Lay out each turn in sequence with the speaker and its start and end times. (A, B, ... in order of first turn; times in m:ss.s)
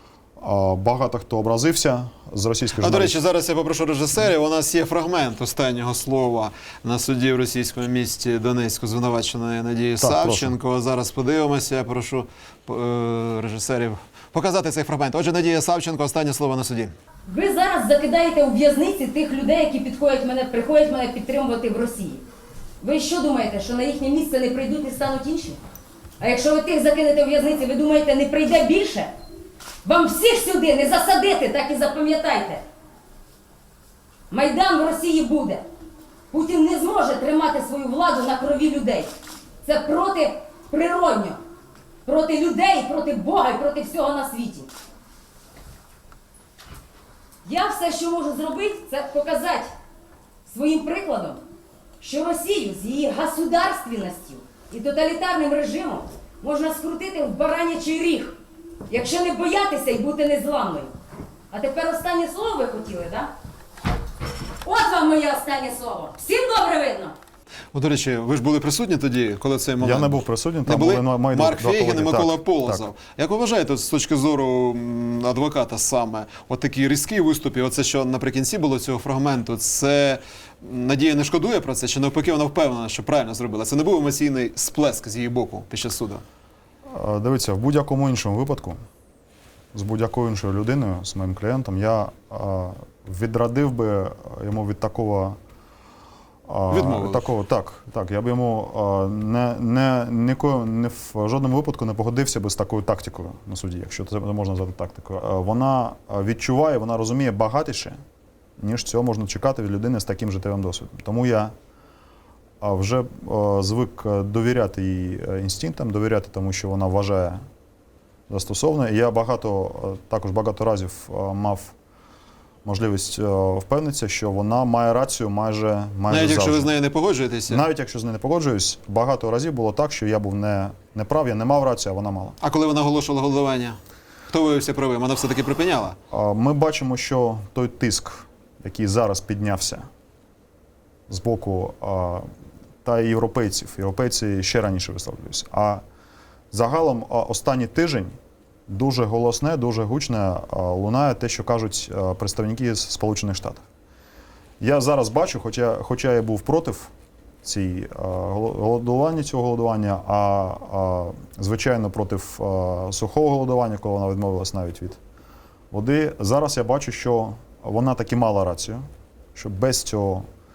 0:00.4-0:03.2 A
0:02.8-0:16.9 B
0:10.0-0:10.5 A
0:17.3-0:22.2 C
0:22.8-0:25.6 C
0:26.2-0:29.1 C
0:29.8-0:32.6 C
0:34.3-0:35.7 C
0:36.3-0:39.1 C
0:39.6-0:41.4 C
0:42.0-0:44.7 C
0:47.4-0:49.7 C
0:50.5-0:51.4 C
0:52.0-0:58.4 C
0:58.9-1:00.9 C
1:01.5-1:03.3 C
1:04.6-1:07.2 C
1:07.7-1:26.2 B
1:09.8-1:12.8 A
1:26.9-1:28.8 A
1:29.7-1:35.4 A
1:36.5-1:48.0 A
1:36.7-1:37.3 B
1:48.6-1:51.5 A
1:52.6-1:57.4 A
1:58.3-2:01.8 A
2:02.6-2:06.7 A
2:06.1-2:07.6 B
2:07.5-2:12.4 A
2:12.4-2:13.8 B
2:14.3-2:16.0 B
2:16.1-2:19.9 A
2:21.1-2:22.3 A
2:22.8-2:25.8 A
2:26.5-2:28.2 A
2:28.7-2:33.6 A
2:34.6-2:36.9 A
2:37.4-2:45.0 A
2:45.7-2:48.8 A
2:49.4-2:50.2 A